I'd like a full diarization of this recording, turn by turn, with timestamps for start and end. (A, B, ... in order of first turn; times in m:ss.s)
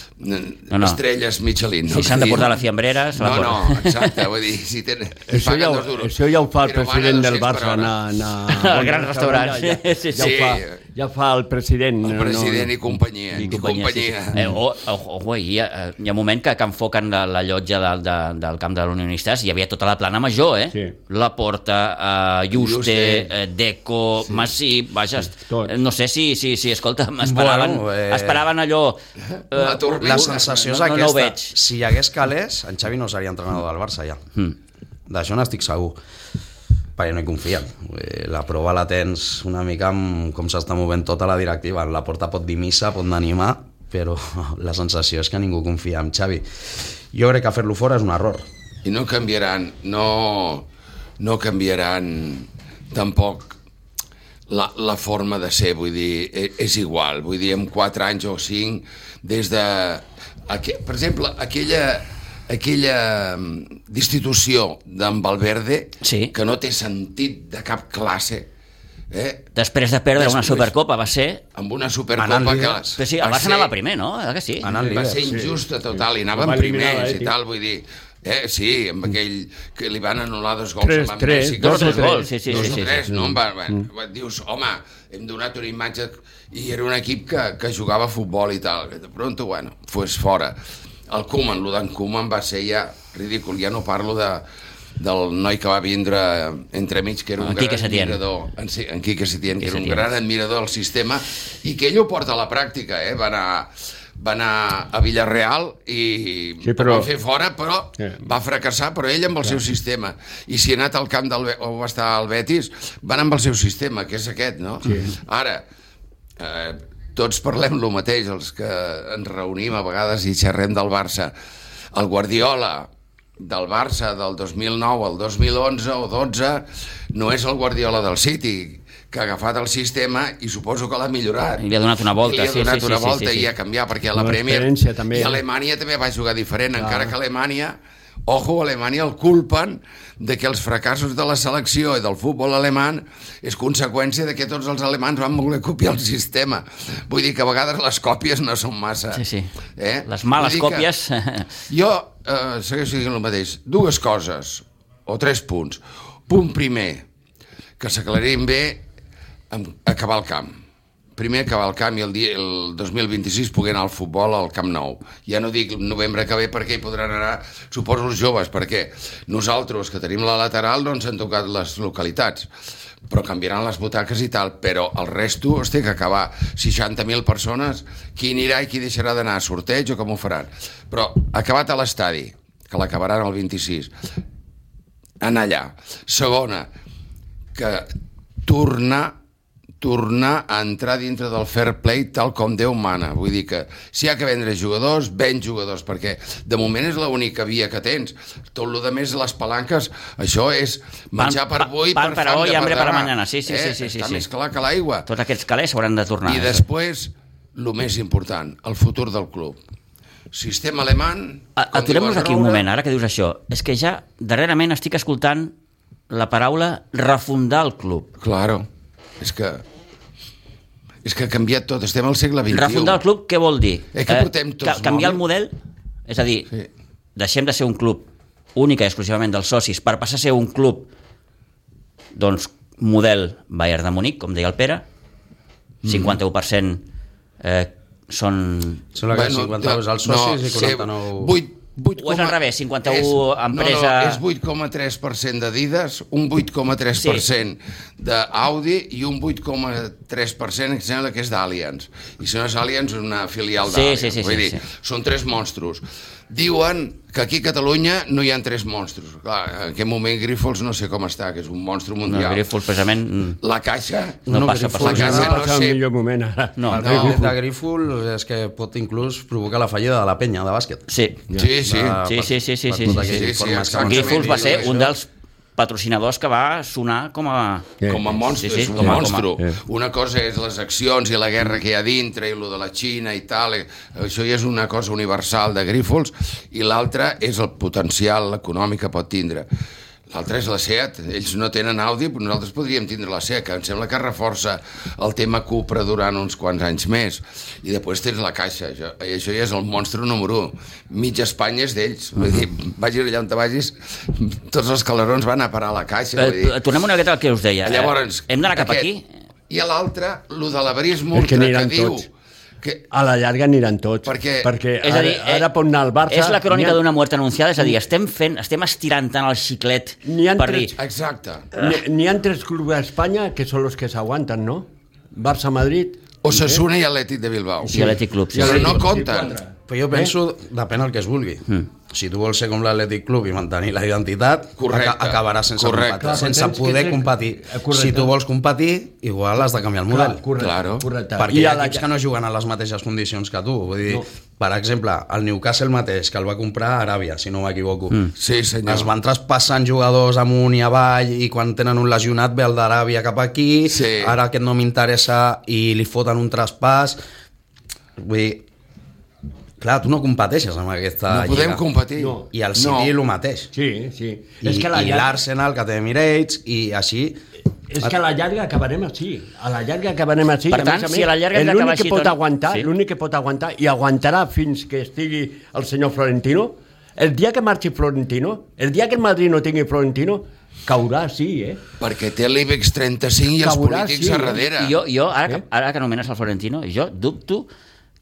0:00.2-0:02.6 A
0:00.7-0:01.0 B
0:01.9-0:04.2 B
0:03.1-0:07.9 A
0:05.3-0:12.8 C
0:08.5-0:10.4 B
0:10.1-0:10.8 A
0:12.0-0:14.4 A
0:13.4-0:14.6 C
0:13.4-0:29.0 B
0:22.5-0:23.3 A
0:25.4-0:25.7 C
0:27.2-0:28.4 D
0:29.5-0:30.6 A
0:29.5-0:31.6 B
0:30.0-0:34.2 D
0:35.1-0:36.0 D
0:37.0-0:48.4 D
0:48.8-0:50.7 A
0:51.2-0:53.6 A
0:54.5-1:08.5 A
1:06.0-1:06.3 B
1:09.1-1:09.5 A
1:09.6-1:11.4 B
1:10.2-1:10.7 A
1:11.6-1:13.7 A
1:12.2-1:13.0 D
1:13.0-1:14.7 B
1:14.6-1:15.3 D
1:14.7-1:30.6 A
1:15.2-1:17.3 C
1:20.8-1:23.9 C
1:21.6-1:23.0 B
1:31.1-1:34.4 A
1:35.0-1:55.6 A
1:37.4-1:38.2 B
1:39.6-1:40.1 B
1:46.6-1:47.1 C
1:54.8-1:55.1 C
1:56.4-2:01.3 A
2:01.9-2:29.2 A
2:11.6-2:13.5 B
2:14.2-2:15.4 C
2:16.8-2:17.1 C
2:29.1-2:29.5 B
2:29.8-2:30.9 A
2:30.1-2:31.5 B
2:31.7-2:37.0 A
2:37.8-2:38.8 A
2:39.5-2:40.6 A
2:41.2-2:52.5 A
2:53.1-3:03.9 A
3:05.2-3:06.7 A
3:07.6-3:07.9 A
3:08.4-3:09.2 A
3:09.8-3:25.1 A
3:21.2-3:24.3 B
3:25.1-3:26.6 B
3:26.2-3:29.6 A
3:30.3-3:32.6 A
3:31.6-3:35.5 B
3:36.1-3:38.1 B
3:38.2-3:38.7 A
3:39.2-3:39.6 A
3:41.0-3:43.0 A
3:42.5-3:45.5 B
3:43.9-3:45.2 A
3:46.1-3:46.5 B
3:47.2-3:50.9 B
3:52.1-3:54.8 B
3:55.8-3:56.2 A
3:55.9-3:56.8 B
3:57.4-3:58.8 B
3:58.9-4:01.4 D
3:59.1-4:22.5 A
4:02.0-4:04.2 B
4:07.0-4:07.2 B
4:13.6-4:14.6 B
4:22.1-4:23.4 B
4:23.4-4:24.3 A
4:24.3-4:25.4 D
4:24.3-4:25.3 B
4:24.8-4:25.8 A
4:24.8-4:27.3 C
4:26.7-4:30.9 D
4:26.8-4:27.2 A
4:30.9-4:31.2 B
4:31.3-4:32.0 A
4:31.6-4:34.9 D
4:32.0-4:33.3 B
4:32.9-4:34.9 A
4:33.8-4:37.8 B
4:37.9-4:49.5 A
4:38.4-4:39.3 B
4:38.8-4:39.6 C
4:50.1-5:06.6 A
5:06.2-5:09.1 B
5:07.6-5:08.9 A
5:09.5-5:12.1 A
5:11.1-5:12.1 C
5:12.9-5:16.8 C
5:14.1-5:14.5 A
5:14.8-5:15.5 B
5:16.1-5:20.8 B
5:20.0-5:20.8 C
5:20.8-5:21.5 A
5:21.6-5:26.6 C
5:26.2-5:29.4 A
5:27.6-5:30.1 C
5:27.7-5:28.8 B
5:28.5-5:28.8 D
5:29.7-5:40.2 D
5:34.6-5:36.2 A
5:36.0-5:38.1 C
5:39.9-5:41.9 C
5:40.4-5:40.9 A
5:41.2-5:48.1 D
5:48.2-5:48.9 A
5:48.6-5:57.0 D
5:53.7-5:54.2 A
5:58.0-5:58.5 D
5:59.6-6:01.6 D
6:01.1-6:02.9 A
6:02.0-6:02.3 C
6:02.3-6:03.5 D
6:03.5-6:05.2 C
6:04.4-6:07.2 D
6:07.7-6:21.6 C
6:10.5-6:12.7 B
6:21.8-6:24.8 A
6:23.4-6:24.4 C
6:24.5-6:27.5 B